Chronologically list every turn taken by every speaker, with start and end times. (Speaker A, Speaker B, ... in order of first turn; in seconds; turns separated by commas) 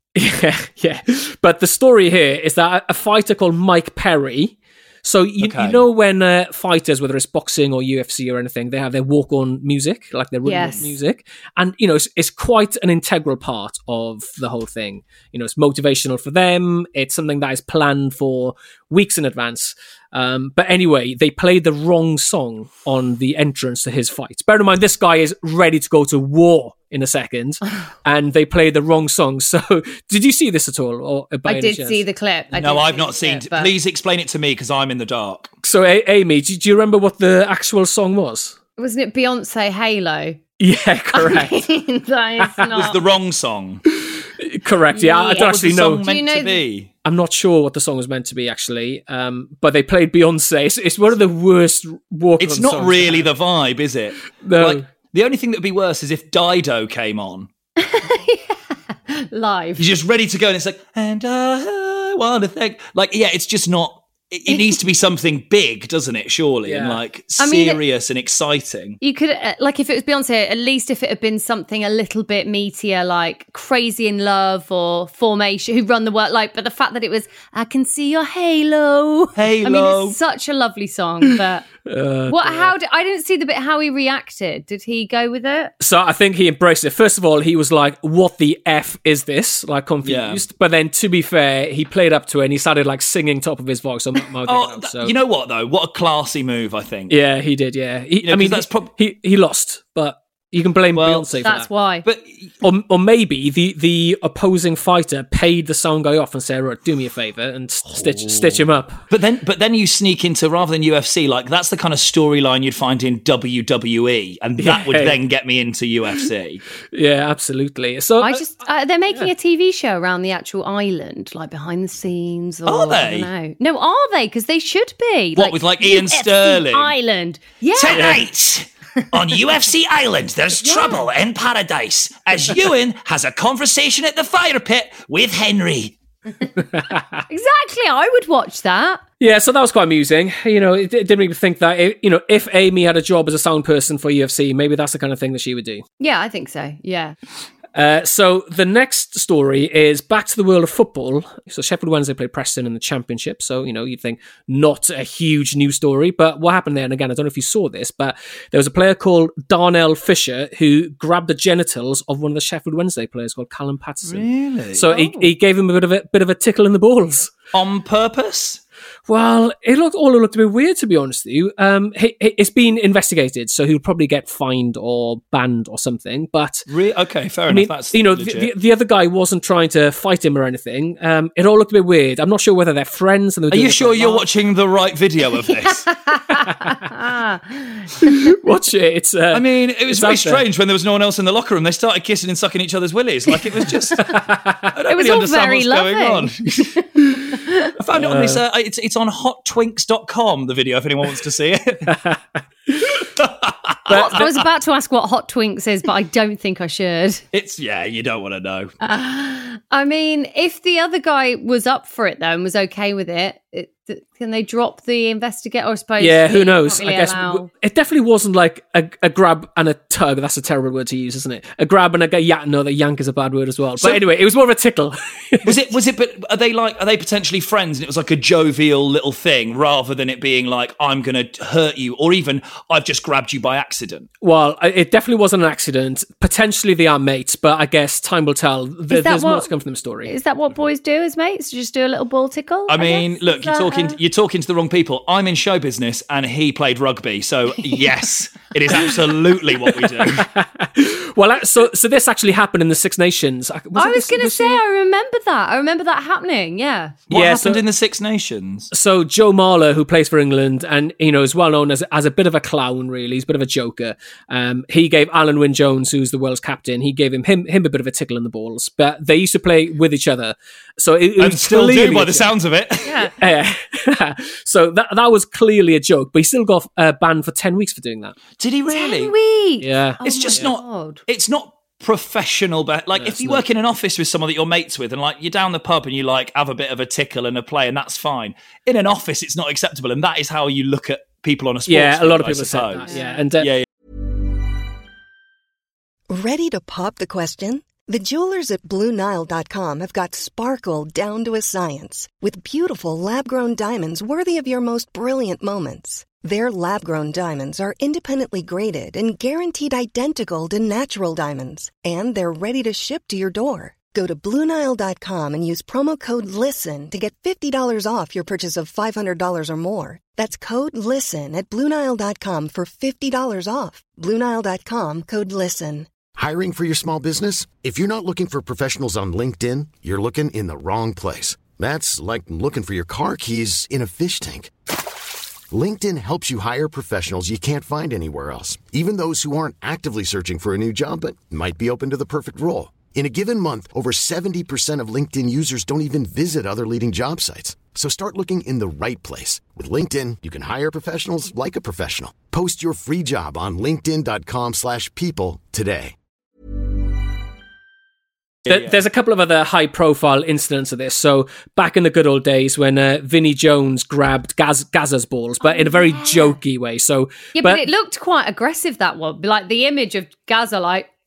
Speaker A: 0.1-32.0, Speaker B: 5.4-5.8, Speaker C: 10.4-10.9, Speaker C: 31.4-33.7, Speaker B: 32.5-35.5, Speaker A: 35.6-38.6, Speaker C: 38.8-40.4, Speaker A: 40.6-41.6, Speaker C: 41.1-43.0, Speaker A: 42.4-42.8, Speaker B: 42.7-43.8, Speaker A: 44.0-46.0, Speaker C: 44.9-46.6, Speaker B: 45.3-46.9, Speaker A: 47.0-53.3, Speaker B: 52.4-57.5, Speaker A: 54.4-54.9, Speaker C: 57.8-59.9, Speaker B: 59.8-69.0, Speaker A: 66.7-67.0, Speaker C: 67.4-67.8, Speaker C: 69.0-81.7, Speaker B: 79.4-80.2, Speaker A: 81.9-82.7, Speaker C: 82.3-85.7, Speaker A: 85.8-95.1, Speaker B: 90.0-90.4, Speaker B: 94.5-97.1, Speaker A: 97.1-101.7, Speaker B: 98.2-98.9, Speaker B: 100.9-101.5, Speaker C: 101.4-102.0, Speaker B: 102.0-102.5, Speaker A: 102.6-109.0, Speaker B: 108.0-108.4, Speaker B: 109.1-116.6, Speaker A: 114.6-115.2, Speaker A: 116.9-118.4, Speaker C: 118.2-128.2, Speaker B: 122.7-123.3, Speaker B: 125.4-126.9, Speaker B: 127.8-135.9, Speaker A: 127.9-128.2, Speaker C: 130.6-131.0, Speaker A: 136.6-137.2, Speaker C: 137.3-139.0, Speaker A: 139.2-145.8, Speaker C: 146.0-147.1, Speaker A: 147.8-167.3, Speaker B: 164.0-164.9, Speaker C: 164.9-165.3, Speaker B: 167.5-168.6, Speaker A: 169.1-176.7, Speaker B: 176.7-178.5, Speaker A: 177.5-184.2, Speaker B: 183.5-185.9, Speaker C: 185.6-188.1, Speaker A: 186.4-186.8, Speaker A: 188.0-190.4, Speaker B: 189.3-194.2, Speaker A: 193.9-194.7, Speaker B: 194.7-201.9, Speaker C: 194.9-196.8, Speaker C: 197.3-197.7, Speaker A: 197.9-198.4, Speaker A: 201.9-202.9, Speaker B: 203.0-204.3, Speaker C: 203.9-207.2, Speaker A: 203.9-204.3, Speaker B: 207.3-208.7, Speaker C: 208.8-217.5, Speaker A: 216.0-225.6, Speaker B: 225.4-234.1, Speaker A: 234.2-240.1, Speaker C: 238.9-239.5, Speaker C: 240.1-244.0, Speaker B: 242.7-250.3, Speaker A: 249.7-254.6, Speaker C: 253.7-257.0, Speaker B: 257.1-258.7, Speaker A: 257.1-257.6, Speaker A: 258.7-272.3, Speaker B: 271.2-273.1, Speaker C: 272.8-273.1, Speaker A: 273.2-278.1, Speaker B: 278.4-279.1, Speaker C: 278.7-281.0, Speaker A: 279.6-280.5, Speaker B: 280.0-293.6, Speaker A: 282.9-283.4, Speaker A: 291.7-293.5, Speaker C: 292.8-293.2, Speaker D: 296.1-325.9, Speaker E: 326.1-334.5, Speaker E: 335.5-355.9, Speaker A: 358.4-367.6, Speaker B: 358.5-358.8, Speaker C: 365.4-366.4, Speaker C: 367.4-370.9